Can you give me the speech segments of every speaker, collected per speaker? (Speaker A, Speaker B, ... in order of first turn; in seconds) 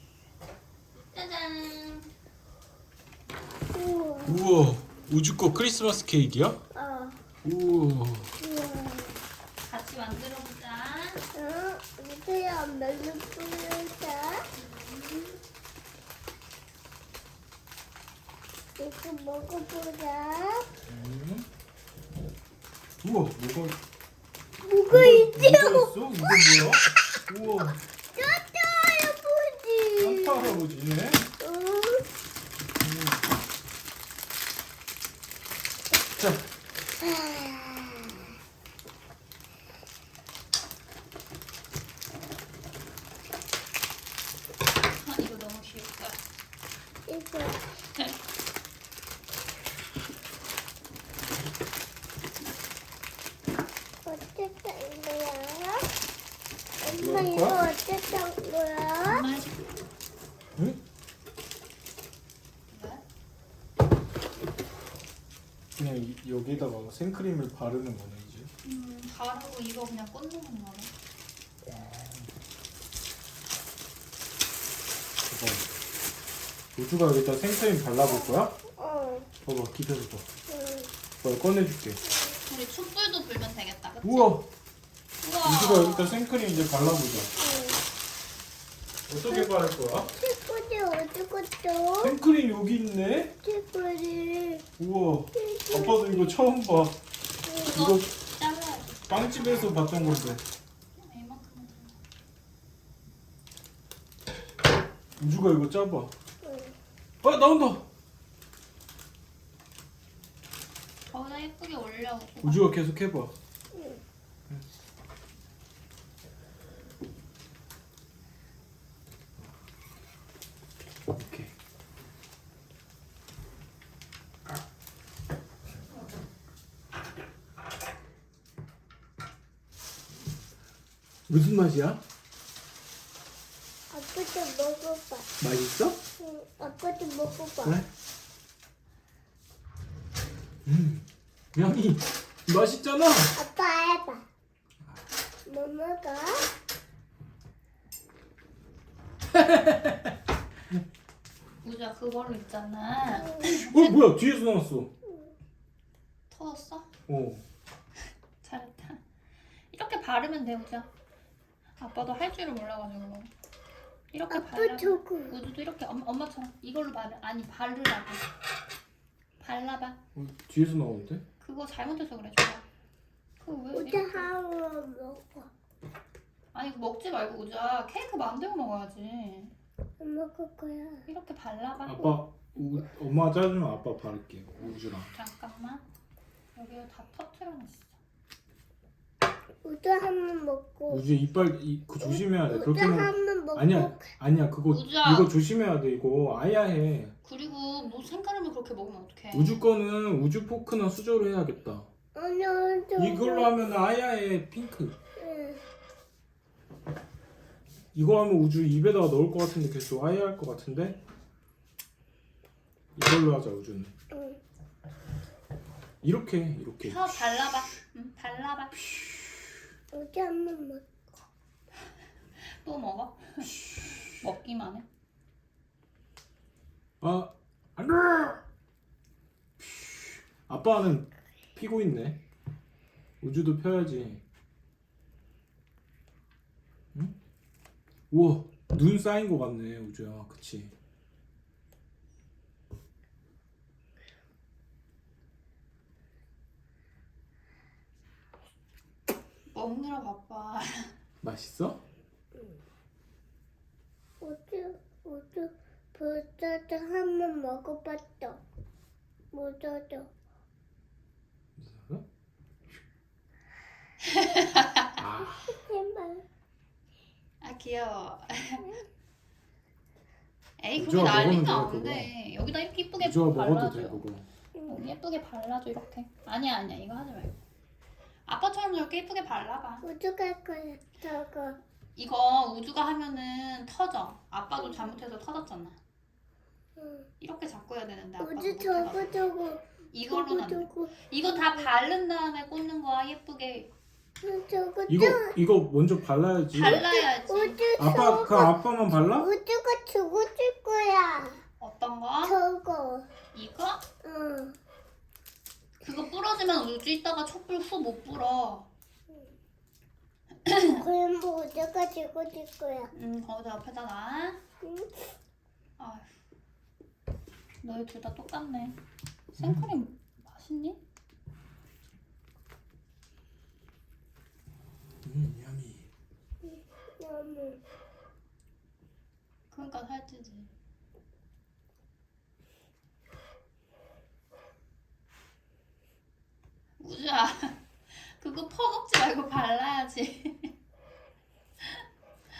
Speaker A: 1.1-2.1, 9.6-11.2, 14.6-15.3, 44.9-46.2, 59.0-59.6, 62.7-63.0, 68.6-70.9, 82.5-84.4, 85.2-86.2, 97.7-99.0, 100.9-102.0, 111.1-112.7, 151.6-153.9, 156.3-156.9, 158.4-159.0, 159.7-160.9, 161.8-163.3, 164.1-168.2, 169.4-170.0, 171.4-172.6, 173.4-174.3, 176.5-179.5, 181.1-182.2, 185.1-185.8, 186.5-187.9, 194.7-195.3, 197.2-199.6, 216.8-218.7, 222.5-224.8, 249.5-250.9, 264.0-264.9, 267.4-268.6, 270.6-274.1, 274.6-277.4, 278.2-279.8, 281.9-285.8, 287.2-289.2, 289.9-293.7, 296.5-297.6, 301.6-302.4, 303.3-303.8, 305.8-308.7, 310.4-310.8, 312.9-314.4, 315.8-316.1, 317.6-318.7, 319.4-320.8, 329.5-330.5, 336.8-340.5
Speaker B: 3.7-4.4, 6.7-7.2, 8.4-9.2, 11.3-14.4, 18.8-20.7, 24.6-26.6, 28.1-30.6, 31.4-32.0, 37.0-38.2, 47.1-47.6, 54.0-55.9, 56.8-59.2, 78.0-79.3, 80.5-80.9, 82.0-82.4, 87.4-87.8, 90.1-92.1, 93.4-94.7, 95.3-96.3, 97.4-97.9, 106.4-106.7, 113.7-114.0, 133.9-135.3, 136.2-137.8, 143.3-144.2, 145.5-146.4, 153.1-153.5, 155.1-155.3, 164.3-165.3, 173.7-175.5, 180.0-181.1, 189.6-191.0, 192.0-194.1, 202.1-203.5, 205.2-205.6, 214.1-214.4, 219.9-220.8, 254.2-258.4, 259.3-260.1, 265.3-266.2, 268.5-268.8, 274.6-274.9, 279.8-281.6, 284.6-285.0, 286.8-287.1, 288.2-291.7, 294.2-295.4, 296.6-301.4, 302.2-303.1, 304.0-304.6, 310.6-312.9, 314.6-315.1, 326.4-327.6
Speaker C: 4.2-6.6, 7.4-8.3, 20.9-21.5, 23.0-23.8, 24.9-27.8, 30.0-31.2, 32.8-33.2, 36.1-36.4, 56.8-57.6, 65.8-68.5, 71.7-72.3, 75.3-75.7, 76.7-78.5, 79.4-80.3, 81.2-82.0, 84.0-84.5, 85.4-87.3, 89.1-90.1, 92.0-93.3, 94.8-97.0, 97.7-98.1, 99.1-100.4, 105.2-106.1, 107.2-107.8, 112.4-113.3, 121.1-121.5, 131.3-132.0, 135.4-136.0, 137.6-137.9, 140.6-143.3, 149.3-150.1, 153.4-154.9, 157.1-157.4, 170.1-171.2, 181.8-185.1, 190.9-197.1, 199.3-201.9, 203.0-204.9, 207.9-211.0, 212.9-213.9, 216.0-217.7, 218.8-219.4, 223.4-224.1, 227.0-228.4, 229.6-232.2, 233.2-234.2, 238.1-240.7, 251.2-251.8, 261.6-262.0, 265.0-265.5, 270.8-272.1, 273.0-274.3, 294.9-296.8, 297.8-299.3, 319.4-319.7, 325.0-325.9